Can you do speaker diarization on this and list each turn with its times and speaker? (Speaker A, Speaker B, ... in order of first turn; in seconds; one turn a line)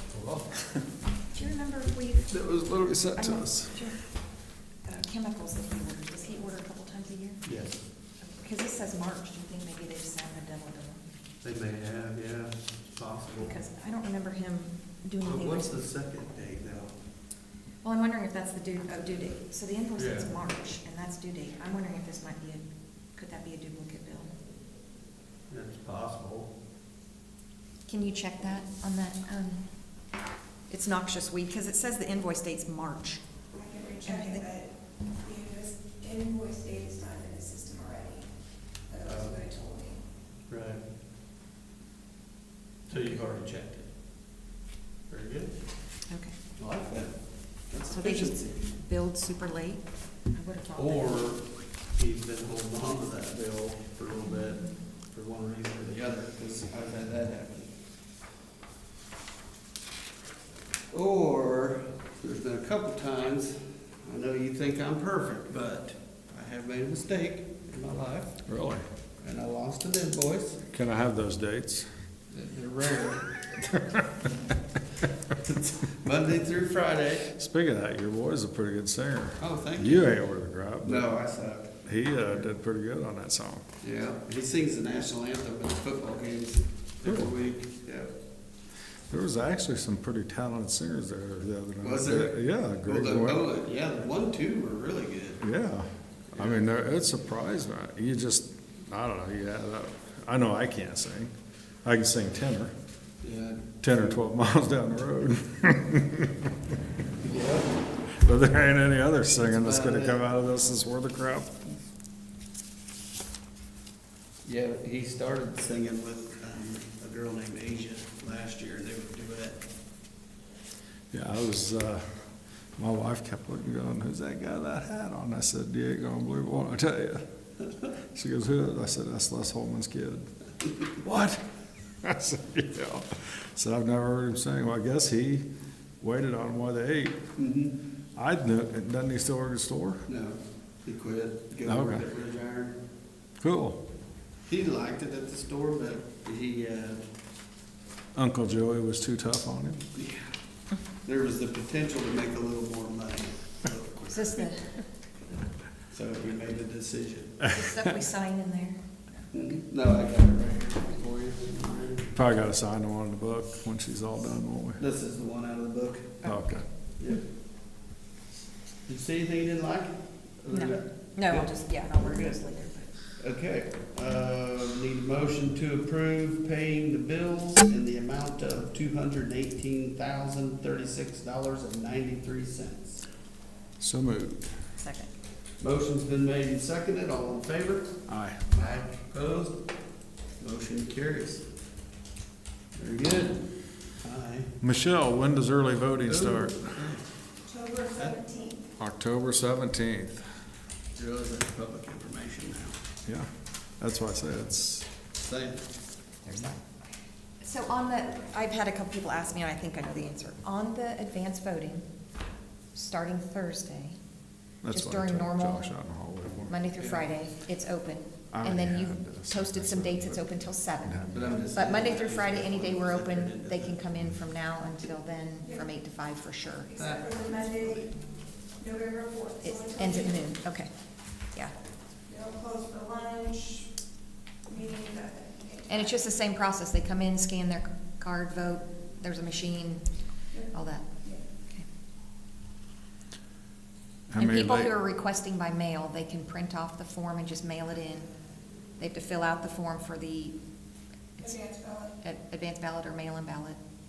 Speaker A: 0.1-0.6
Speaker B: 1.3-7.4
Speaker C: 2.3-2.9
Speaker A: 2.6-3.8
Speaker C: 7.4-7.8
Speaker B: 8.2-11.0
Speaker C: 11.4-13.6
Speaker B: 13.4-15.7
Speaker C: 15.2-16.9
Speaker B: 17.8-24.3
Speaker C: 19.9-20.3
Speaker C: 25.5-26.5
Speaker B: 27.9-29.7
Speaker B: 30.7-33.2
Speaker D: 33.6-34.7
Speaker B: 34.0-34.5
Speaker D: 35.2-38.3
Speaker D: 38.9-40.0
Speaker C: 39.0-39.5
Speaker C: 40.5-40.8
Speaker C: 42.9-43.9
Speaker C: 45.1-45.6
Speaker B: 46.1-46.4
Speaker C: 46.5-48.5
Speaker B: 47.9-51.2
Speaker C: 50.8-57.7
Speaker B: 54.2-54.8
Speaker C: 60.9-68.4
Speaker A: 68.5-68.8
Speaker C: 69.2-70.6
Speaker A: 70.7-71.9
Speaker C: 72.3-73.3
Speaker A: 73.6-74.3
Speaker C: 75.4-77.3
Speaker A: 77.3-81.2
Speaker C: 79.4-80.2
Speaker C: 80.8-82.5
Speaker A: 81.8-83.6
Speaker C: 83.8-88.1
Speaker A: 87.0-87.3
Speaker A: 89.1-93.4
Speaker C: 91.8-95.5
Speaker A: 95.4-101.3
Speaker C: 96.3-96.7
Speaker A: 101.8-102.7
Speaker C: 103.2-104.2
Speaker A: 103.8-106.5
Speaker C: 107.2-107.8
Speaker A: 108.2-111.6
Speaker C: 109.3-110.2
Speaker C: 114.4-119.6
Speaker A: 121.1-127.2
Speaker A: 128.0-130.3
Speaker A: 131.0-131.4
Speaker A: 132.0-135.4
Speaker A: 136.0-137.2
Speaker C: 137.4-137.8
Speaker A: 138.1-140.0
Speaker C: 140.1-142.8
Speaker A: 141.6-142.0
Speaker A: 143.4-143.8
Speaker C: 144.5-147.0
Speaker A: 148.1-149.8
Speaker C: 149.9-150.3
Speaker C: 151.0-154.4
Speaker B: 154.1-154.8
Speaker C: 155.9-157.4
Speaker B: 157.5-159.3
Speaker C: 159.3-162.1
Speaker A: 162.1-164.8
Speaker C: 164.8-166.2
Speaker A: 166.2-166.6
Speaker C: 168.9-172.4
Speaker B: 170.5-172.9
Speaker C: 173.2-183.0
Speaker A: 183.8-184.5
Speaker B: 184.8-185.1
Speaker C: 185.6-187.9
Speaker A: 188.1-188.4
Speaker C: 188.5-189.6
Speaker C: 190.4-191.4
Speaker C: 192.8-193.4
Speaker C: 194.0-194.5
Speaker A: 194.6-196.8
Speaker C: 196.1-197.1
Speaker D: 197.5-198.6
Speaker C: 197.9-198.2
Speaker A: 198.8-200.2
Speaker C: 200.9-202.8
Speaker A: 203.8-204.9
Speaker C: 205.2-205.6
Speaker B: 206.2-206.6
Speaker B: 207.4-211.8
Speaker B: 212.7-214.0
Speaker A: 214.6-216.5
Speaker B: 214.7-215.7
Speaker B: 216.5-227.0
Speaker C: 216.8-217.1
Speaker A: 218.3-221.3
Speaker C: 221.1-223.8
Speaker C: 226.8-227.9
Speaker D: 227.0-227.7
Speaker D: 228.6-230.1
Speaker B: 229.4-230.7
Speaker D: 232.1-233.7
Speaker D: 234.5-235.7
Speaker B: 235.7-240.9
Speaker A: 244.1-244.7
Speaker B: 244.2-248.1
Speaker B: 248.8-250.3
Speaker D: 251.2-251.9
Speaker B: 252.0-253.6